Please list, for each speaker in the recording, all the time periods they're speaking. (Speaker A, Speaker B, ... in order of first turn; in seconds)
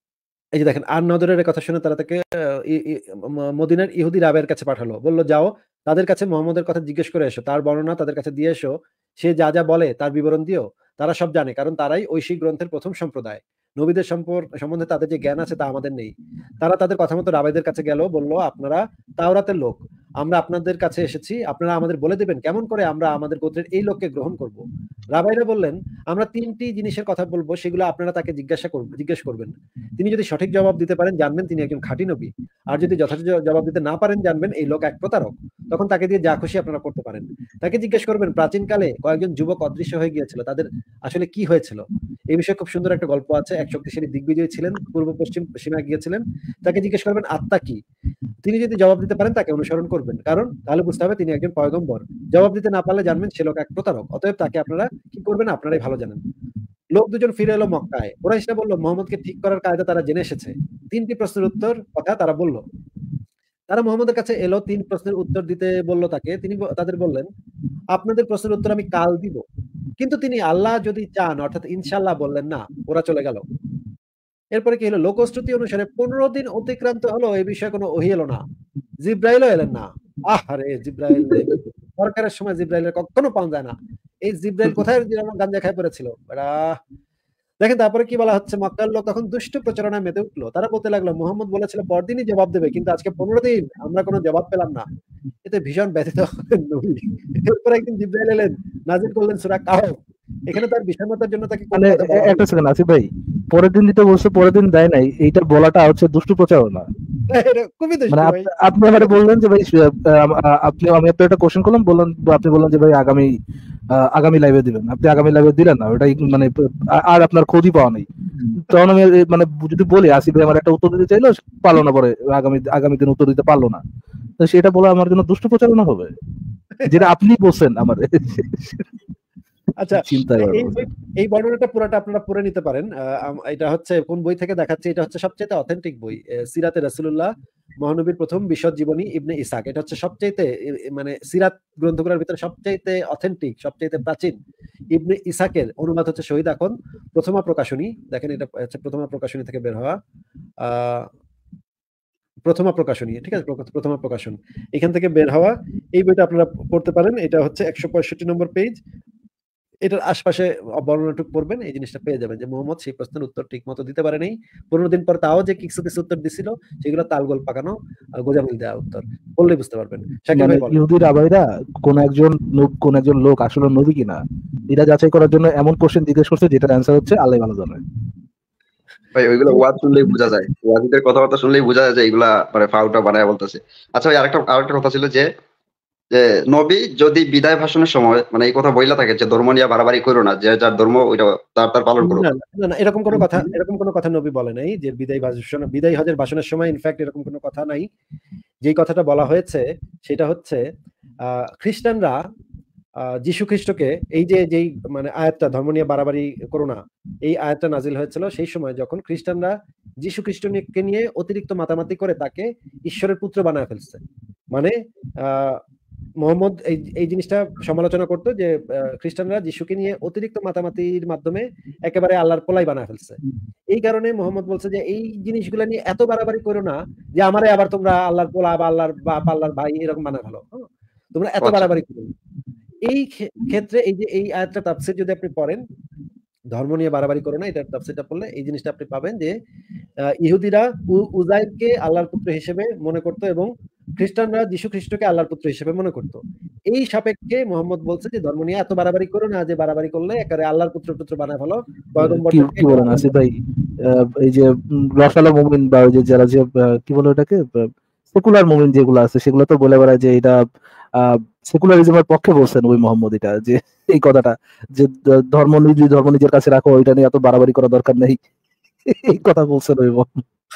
Speaker A: 0.6-24.6, 25.1-47.8, 48.4-56.2, 56.9-62.6, 63.7-67.3, 67.9-69.4, 70.0-73.4, 74.5-78.4, 79.0-83.7, 84.3-86.5, 87.6-94.8, 95.5-100.0, 100.5-102.4, 107.3-109.2, 129.8-137.3, 137.8-144.3, 144.9-149.9, 150.6-151.1, 152.4-158.7, 159.9-170.8, 192.0-197.9, 198.6-200.6, 201.3-202.2, 203.2-214.0, 215.2-215.6, 216.2-223.2, 223.7-230.6, 231.1-232.1, 232.8-235.6, 236.5-239.3, 240.2-253.2
Speaker B: 101.7-106.9, 108.1-113.3, 113.9-118.1, 118.6-123.8, 124.4-126.1, 126.9-128.8, 129.9-130.8, 170.3-174.2, 174.7-177.8, 252.0-260.4, 261.0-268.2, 269.1-270.2
Speaker C: 179.2-185.2, 186.2-192.3, 193.1-193.4, 231.4-231.7